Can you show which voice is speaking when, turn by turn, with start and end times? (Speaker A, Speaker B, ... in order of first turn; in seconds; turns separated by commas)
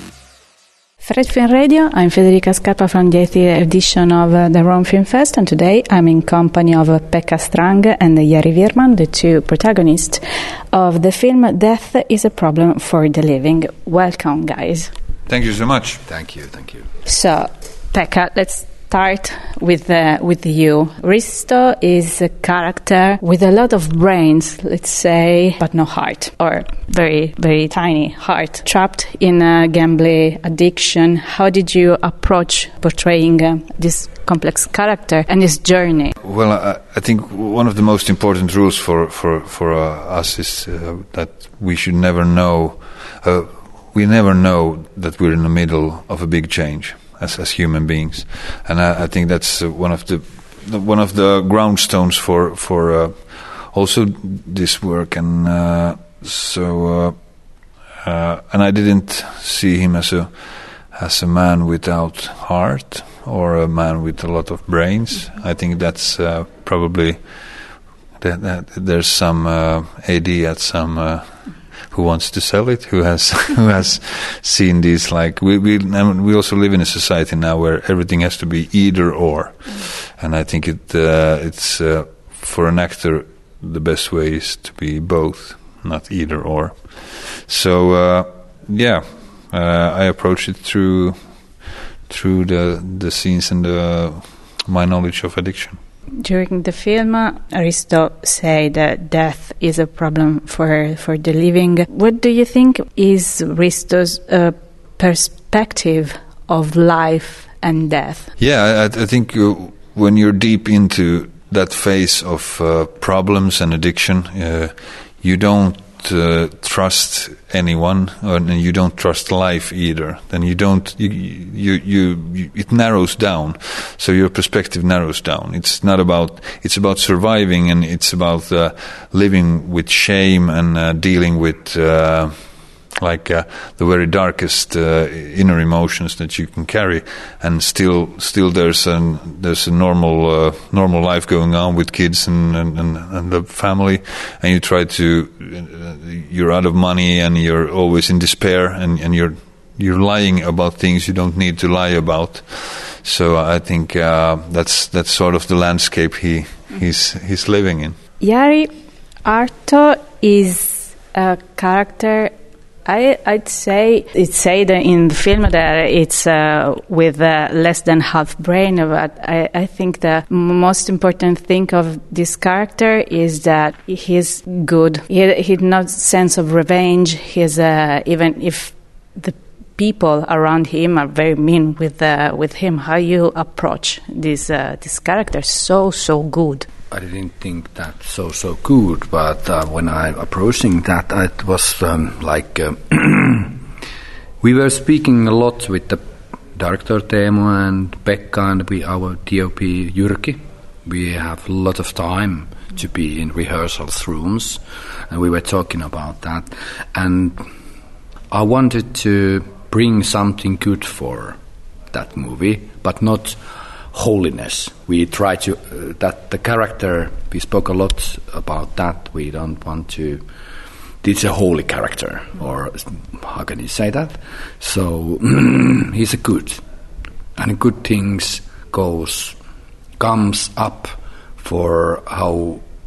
Speaker A: 1.0-14.9, Speaker B: 15.3-16.0, Speaker C: 16.1-16.9, Speaker A: 17.1-36.1, Speaker B: 36.2-57.2, Speaker B: 58.0-67.2, Speaker B: 68.2-95.8, Speaker A: 96.2-108.3, Speaker B: 108.4-158.0, Speaker A: 158.2-158.7, Speaker A: 159.2-162.3, Speaker A: 162.8-186.7, Speaker C: 186.9-193.6, Speaker C: 194.4-196.0, Speaker C: 196.6-207.4, Speaker C: 208.3-211.4, Speaker C: 211.9-213.4, Speaker C: 213.9-220.2, Speaker C: 221.0-226.6, Speaker C: 227.4-229.4, Speaker C: 230.0-232.6